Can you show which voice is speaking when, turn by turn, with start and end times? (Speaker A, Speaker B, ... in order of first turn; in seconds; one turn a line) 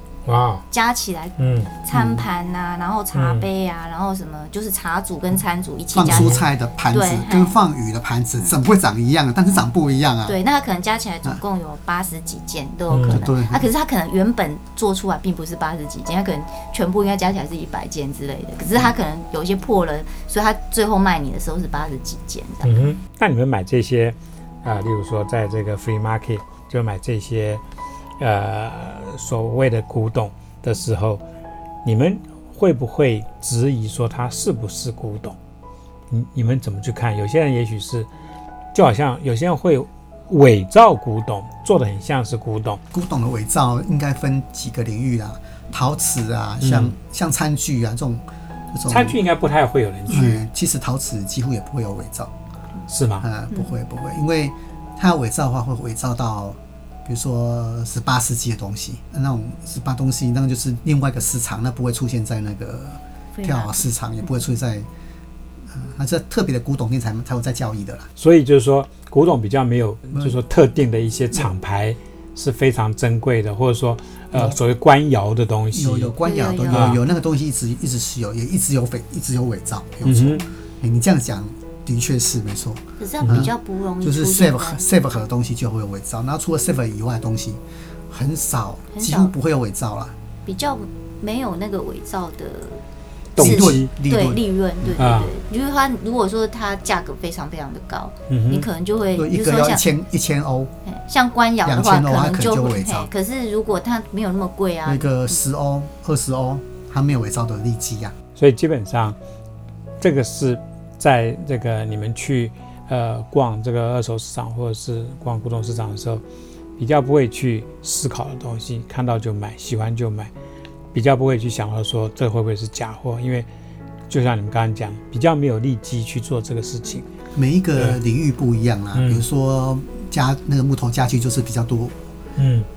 Speaker A: 0.3-0.7
Speaker B: 0.7-6.4
Speaker A: 1.4-1.7
Speaker C: 1.9-2.2
Speaker A: 3.1-3.5
Speaker C: 5.9-10.4
Speaker A: 6.0-6.4
Speaker B: 6.9-7.5
Speaker B: 10.3-22.9
Speaker A: 12.9-13.2
Speaker C: 13.1-13.7
Speaker A: 22.6-27.6
Speaker A: 28.2-31.2
Speaker A: 31.8-35.4
Speaker A: 36.1-38.1
Speaker A: 38.7-42.8
Speaker C: 42.9-49.2
Speaker A: 46.6-46.9
Speaker A: 48.9-50.4
Speaker C: 50.1-52.3
Speaker A: 52.9-53.3
Speaker C: 53.2-64.9
Speaker B: 63.4-63.9
Speaker C: 65.7-68.1
Speaker A: 68.2-76.1
Speaker C: 75.7-90.2
Speaker B: 76.2-77.0
Speaker A: 76.7-77.0
Speaker A: 80.0-80.5
Speaker B: 83.0-84.8
Speaker A: 83.2-83.5
Speaker B: 88.9-89.3
Speaker B: 90.5-92.8
Speaker A: 93.4-93.9
Speaker B: 93.4-99.8
Speaker C: 93.4-95.0
Speaker A: 95.0-95.3
Speaker A: 98.3-98.7
Speaker C: 99.2-100.7
Speaker B: 100.8-105.4
Speaker C: 101.7-103.1
Speaker C: 104.9-108.2
Speaker A: 108.4-109.2
Speaker A: 110.0-116.2
Speaker A: 116.8-120.3
Speaker A: 120.9-123.5
Speaker A: 124.1-127.1
Speaker C: 127.3-132.0
Speaker A: 128.9-129.2
Speaker A: 132.4-132.7